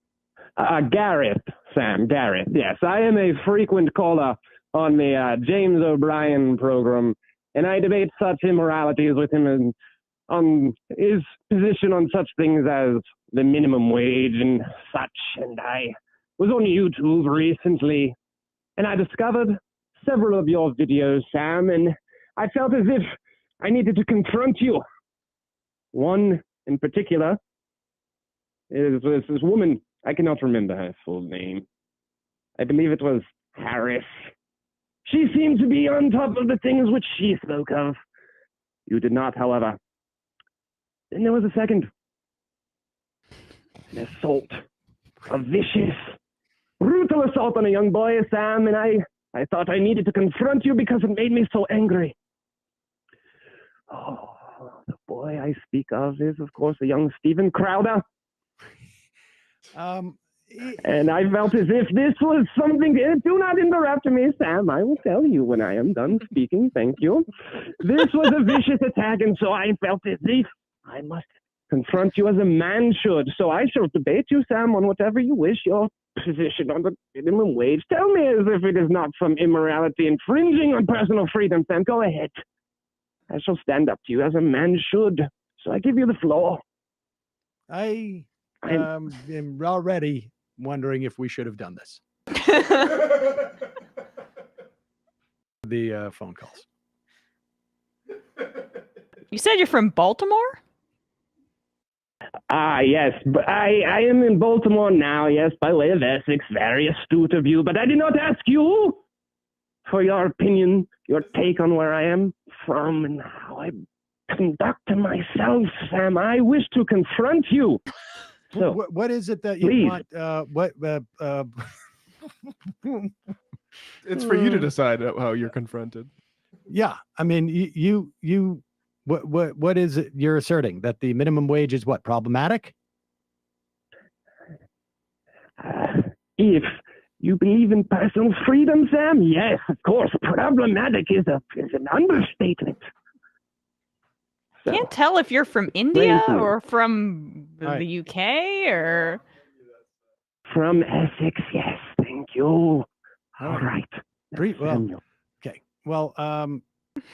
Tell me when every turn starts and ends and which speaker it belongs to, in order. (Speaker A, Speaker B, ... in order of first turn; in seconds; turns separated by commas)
Speaker A: 0.6-9.7, Speaker A: 10.3-18.2, Speaker A: 18.8-24.8, Speaker A: 25.9-27.4, Speaker A: 28.7-31.7, Speaker A: 32.6-34.1, Speaker A: 35.0-38.0, Speaker A: 38.9-39.8, Speaker A: 41.1-41.9, Speaker A: 43.9-44.6, Speaker A: 45.3-46.1, Speaker A: 46.8-52.1, Speaker A: 53.9-58.0, Speaker B: 59.7-60.8, Speaker A: 60.8-82.3, Speaker A: 83.3-86.6, Speaker B: 87.7-92.0, Speaker B: 95.6-96.7, Speaker C: 99.3-100.6, Speaker A: 102.5-109.0, Speaker A: 109.9-113.7, Speaker A: 114.3-117.8, Speaker B: 118.5-121.7, Speaker A: 118.5-118.8, Speaker A: 119.6-120.0, Speaker D: 124.0-126.1, Speaker B: 126.7-132.8, Speaker A: 135.6-142.9, Speaker A: 144.6-144.9, Speaker C: 144.7-149.2, Speaker A: 146.0-146.5, Speaker A: 150.5-152.9, Speaker A: 153.4-155.0, Speaker B: 153.4-153.7, Speaker B: 154.3-154.9, Speaker B: 155.4-156.6